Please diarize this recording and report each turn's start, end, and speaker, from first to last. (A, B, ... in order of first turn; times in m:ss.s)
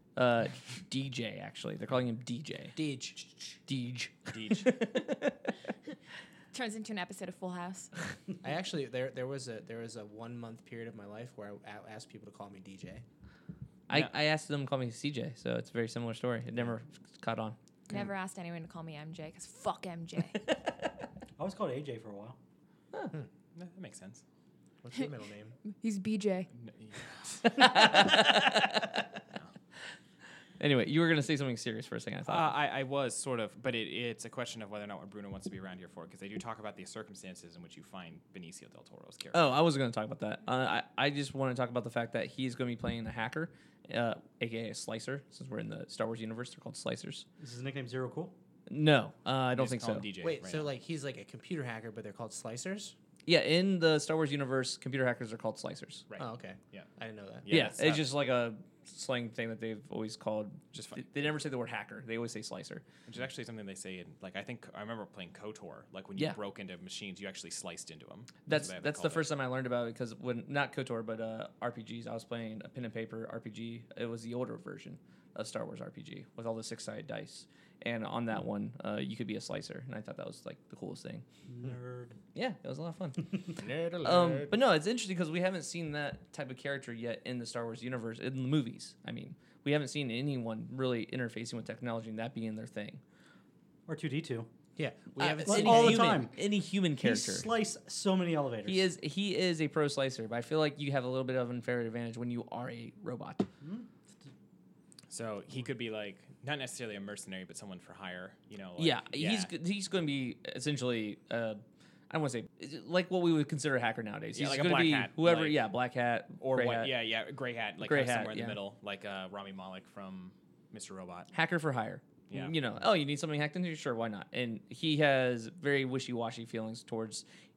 0:00.2-0:02.8 A
0:02.7-0:03.2 B
0:03.7-0:05.5 A
0:04.3-0:04.7 C
0:06.5-0:07.9 D
0:08.4-0:13.0 B
0:13.9-0:17.6 A
0:17.9-0:20.4 D
0:21.4-0:22.4 E
0:23.5-0:24.2 C
0:24.8-0:25.6 B
0:25.6-0:26.5 D
0:26.5-0:28.4 C
0:27.6-0:29.0 A
0:30.6-0:32.5 A
0:32.2-0:39.4 C
0:39.3-0:47.2 A
0:47.4-0:48.3 E
0:48.7-0:50.1 A
0:49.5-0:50.7 C
0:50.2-0:52.9 B
0:53.2-0:56.1 A
0:56.1-0:56.9 C
0:56.2-0:57.7 B
0:57.4-0:58.0 C
0:57.5-1:02.8 A
1:00.7-1:01.2 C
1:03.1-1:09.3 C
1:08.4-1:21.2 A
1:21.5-1:22.2 E
1:22.3-1:33.0 A
1:23.6-1:24.5 B
1:33.9-1:34.5 E
1:34.8-1:36.2 B
1:35.2-1:37.5 A
1:35.4-1:36.5 E
1:37.0-1:38.9 E
1:38.6-1:43.5 A
1:43.6-1:44.3 E
1:45.1-1:49.5 C
1:48.8-1:56.9 A
1:54.3-1:55.7 C
1:56.4-2:01.3 C
1:57.8-1:58.6 A
2:01.3-2:07.2 A
2:02.3-2:02.6 C